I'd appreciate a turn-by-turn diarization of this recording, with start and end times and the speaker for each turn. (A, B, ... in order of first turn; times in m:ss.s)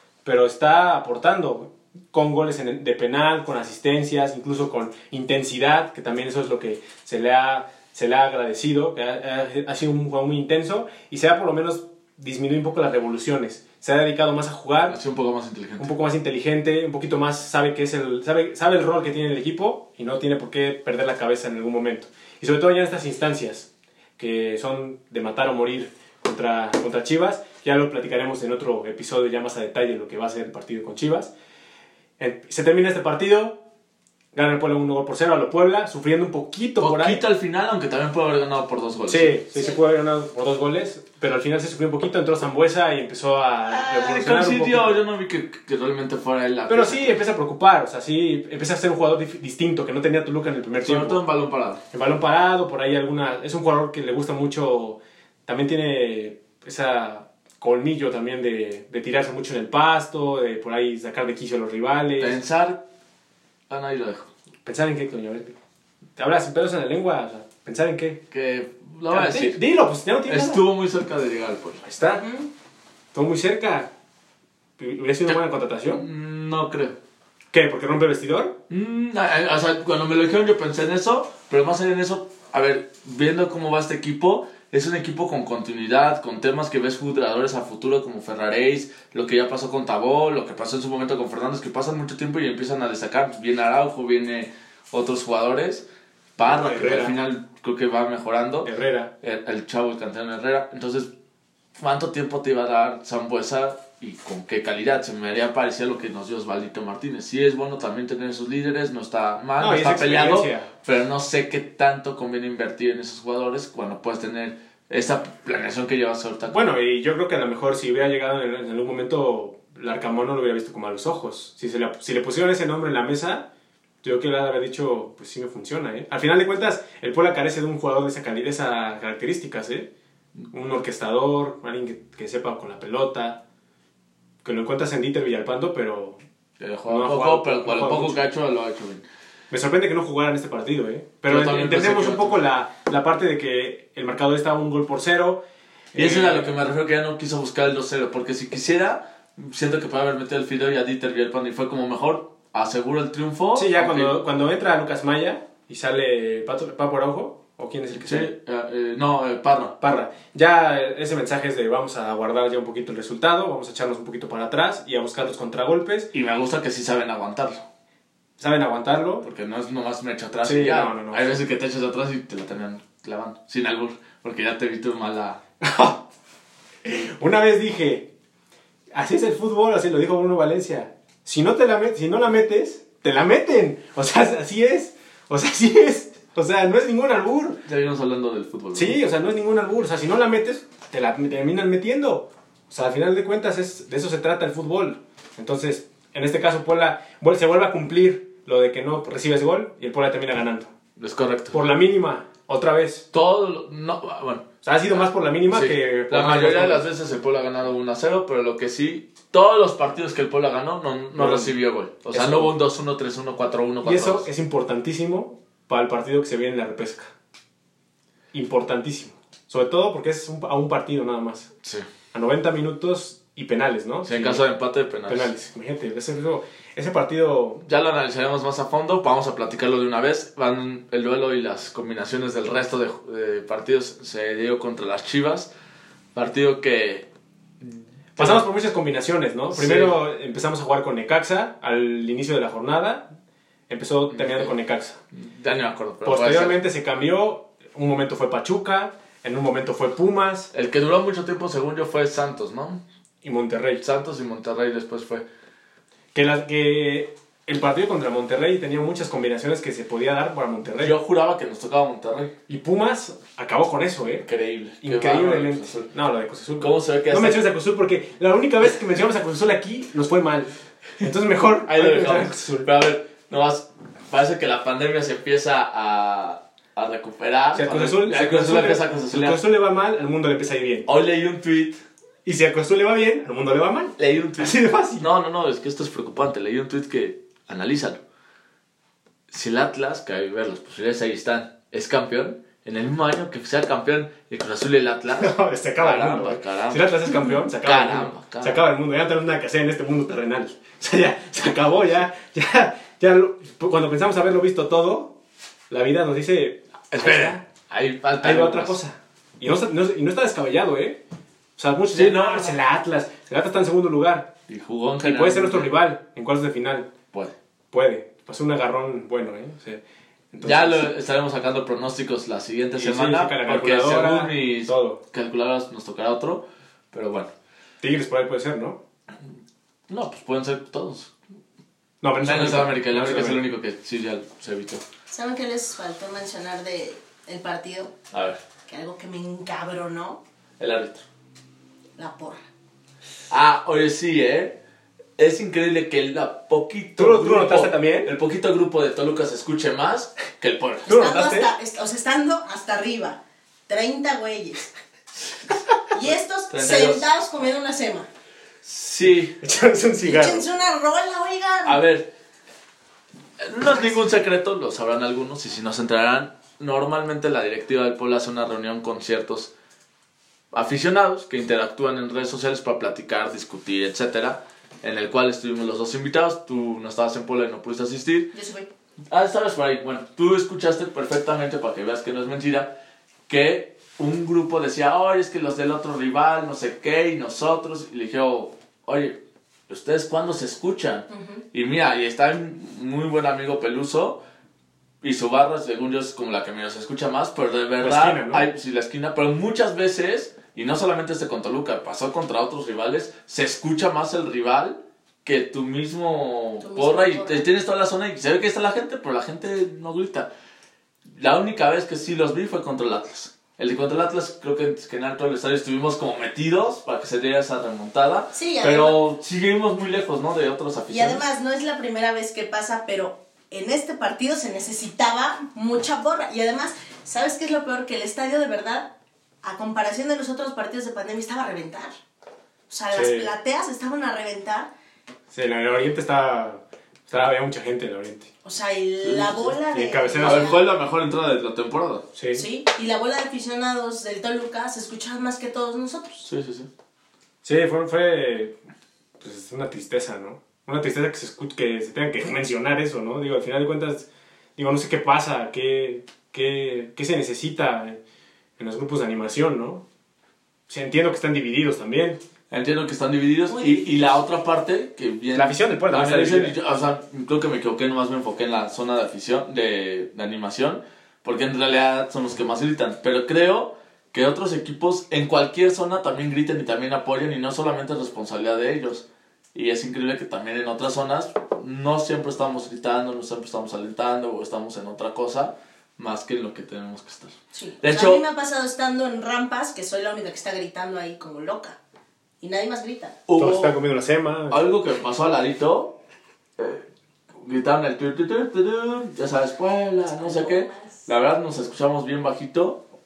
0:00.2-0:15.0 A
0:14.9-0:15.9 B
0:15.8-0:31.3 A
0:32.2-0:33.6 A
0:34.3-0:37.2 A
0:36.8-0:39.4 B
0:39.1-0:45.0 A
0:43.7-0:47.2 B
0:46.7-0:51.2 A
0:50.8-0:51.8 B
0:51.9-1:02.4 A
1:02.2-1:02.8 B
1:03.7-1:04.3 B
1:04.6-1:05.6 A
1:06.2-1:08.2 A
1:08.3-1:09.6 B
1:09.1-1:10.6 A
1:10.3-1:11.8 B
1:11.8-1:12.3 A
1:12.2-1:12.5 C
1:13.1-1:13.9 A
1:14.8-1:16.0 A
1:15.3-1:17.0 B
1:17.5-1:18.6 A
1:18.7-1:41.1 B
1:36.4-1:37.2 A
1:38.6-1:39.1 A
1:41.8-1:56.8 B
1:49.6-1:50.7 A
1:56.5-2:03.5 A
2:04.0-2:09.9 A
2:10.5-2:13.4 A
2:14.4-2:16.2 A
2:16.6-2:19.0 B
2:16.9-2:18.2 A
2:19.5-2:25.4 A
2:21.3-2:22.4 B
2:25.9-2:26.5 A
2:26.0-2:34.2 B
2:33.5-2:38.3 A
2:38.0-2:39.8 B
2:39.8-2:46.1 A
2:46.1-2:47.7 B
2:48.4-2:49.2 A
2:49.2-2:55.4 B
2:50.4-2:51.4 A
2:55.6-2:56.0 A
2:56.8-2:58.1 A
2:58.9-3:07.6 A
3:07.7-3:09.0 B
3:08.7-3:20.7 A
3:21.0-3:21.6 B
3:21.5-3:23.1 A
3:23.1-3:34.3 B
3:24.6-3:26.9 A
3:31.2-3:31.6 A
3:32.1-3:32.5 A
3:33.8-3:37.1 A
3:38.3-3:41.5 A
3:42.1-3:44.4 A
3:44.1-3:45.3 B
3:45.1-3:47.6 A
3:47.6-3:55.5 B
3:56.2-3:57.1 B
3:57.6-3:58.4 B
3:58.2-4:03.1 A
3:59.5-4:00.0 B
4:03.7-4:05.0 A
4:04.1-4:04.5 B
4:05.1-4:06.6 B
4:06.0-4:10.5 A
4:10.5-4:12.8 B
4:13.2-4:13.8 A
4:13.8-4:15.2 B
4:16.1-4:21.0 A
4:20.8-4:22.3 B
4:22.5-4:24.3 A
4:24.3-4:25.8 B
4:24.8-4:32.7 A
4:26.6-4:27.5 B
4:31.7-4:39.4 B
4:37.5-4:40.9 A
4:40.9-4:41.8 B
4:42.2-4:45.1 A
4:44.0-4:48.0 B
4:49.3-4:58.6 B
4:55.2-5:05.1 A
5:05.7-5:07.4 A
5:06.9-5:08.8 B
5:08.2-5:11.0 A
5:11.6-5:14.3 A
5:11.9-5:12.6 B
5:14.5-5:15.7 B
5:15.0-5:16.9 A
5:17.7-5:20.9 A
5:20.4-5:27.3 B
5:22.8-5:25.0 A
5:27.8-5:28.8 A
5:29.9-5:31.1 B
5:32.0-5:33.4 A
5:32.2-5:34.8 B
5:35.1-5:37.9 C
5:38.1-5:38.4 B
5:38.7-5:40.2 C
5:40.6-5:41.0 B
5:42.0-5:42.4 C
5:43.3-5:44.6 B
5:45.2-5:50.9 B
5:47.0-5:48.1 A
5:50.9-5:51.5 A
5:50.9-5:54.7 C
5:55.9-5:58.1 C
5:56.0-5:57.1 B
5:58.6-5:59.4 B
5:59.4-6:00.5 A
6:00.0-6:01.8 C
6:01.6-6:02.1 B
6:03.4-6:09.5 B
6:10.5-6:18.3 B
6:18.3-6:18.7 C
6:19.1-6:22.8 B
6:23.3-6:34.2 B
6:31.1-6:31.4 C
6:35.0-6:50.3 B
6:37.8-6:38.5 A
6:46.6-6:47.5 C
6:51.1-7:01.2 B
6:58.3-6:59.0 C
7:00.9-7:08.9 C
7:09.4-7:11.9 C
7:12.7-7:14.7 C
7:12.9-7:13.3 A
7:15.3-7:18.3 A
7:18.4-7:20.6 C
7:19.0-7:19.6 B
7:19.7-7:20.5 A
7:20.2-7:22.1 B
7:22.2-7:22.4 A
7:22.4-7:26.2 C
7:26.2-7:26.7 B
7:27.4-7:28.6 A
7:29.2-7:38.0 A
7:38.6-7:39.8 A
7:40.7-7:42.2 A
7:42.5-8:08.2 B
7:43.5-7:44.1 C
7:45.3-7:46.6 A
8:07.5-8:11.8 C
8:12.4-8:13.2 C
8:13.3-8:13.8 B
8:13.4-8:14.7 A
8:14.5-8:16.0 B
8:16.6-8:16.9 B
8:17.4-8:22.8 B
8:20.0-8:21.1 C